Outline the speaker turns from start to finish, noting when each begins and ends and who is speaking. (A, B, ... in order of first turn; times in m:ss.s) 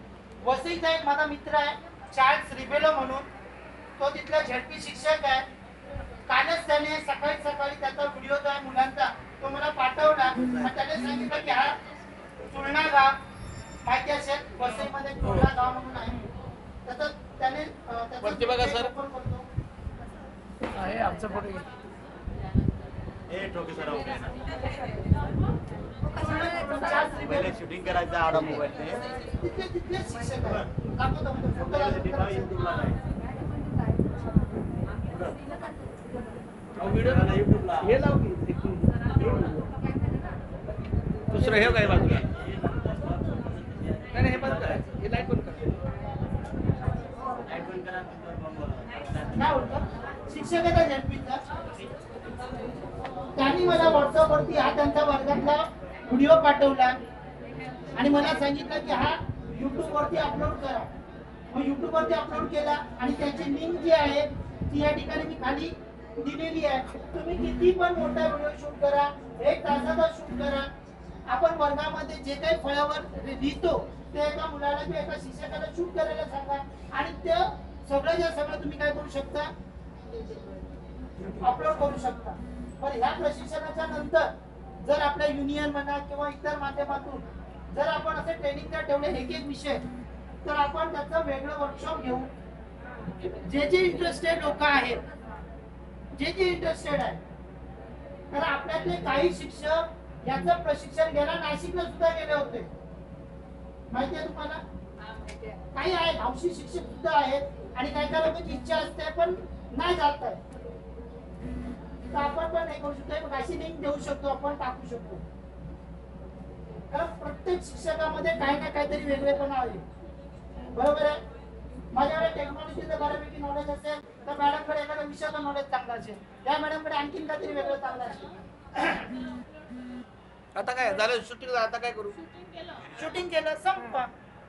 0:00.4-0:03.3 A
0:04.0-0:05.4 A
0:06.3-0:11.8 A
0:12.5-0:13.2 A
0:13.8-0:16.3 A
0:16.8-0:19.5 A
0:18.2-0:18.9 B
0:20.7-0:21.7 B
0:23.3-0:24.3 C
0:26.1-0:27.5 A
0:27.3-0:29.0 C
0:29.3-0:32.6 A
0:31.7-0:33.0 C
0:35.1-0:35.4 C
0:36.8-0:39.7 B
0:36.9-0:37.9 C
0:41.3-0:42.3 B
0:42.2-0:44.8 C
0:44.1-0:45.6 B
0:47.3-0:49.4 C
0:49.3-0:51.4 A
0:53.4-0:57.0 A
0:58.0-1:00.9 A
1:01.5-1:10.7 A
1:11.3-1:19.5 A
1:21.3-1:24.3 A
1:24.8-1:29.8 A
1:30.4-1:32.3 A
1:33.4-1:35.0 A
1:36.1-1:37.2 A
1:38.3-1:42.7 A
1:43.9-1:44.6 A
1:45.6-1:50.4 A
1:52.1-1:55.2 A
1:56.9-1:59.8 A
2:00.7-2:01.2 A
2:01.9-2:09.1 A
2:10.5-2:12.2 B
2:12.9-2:14.1 A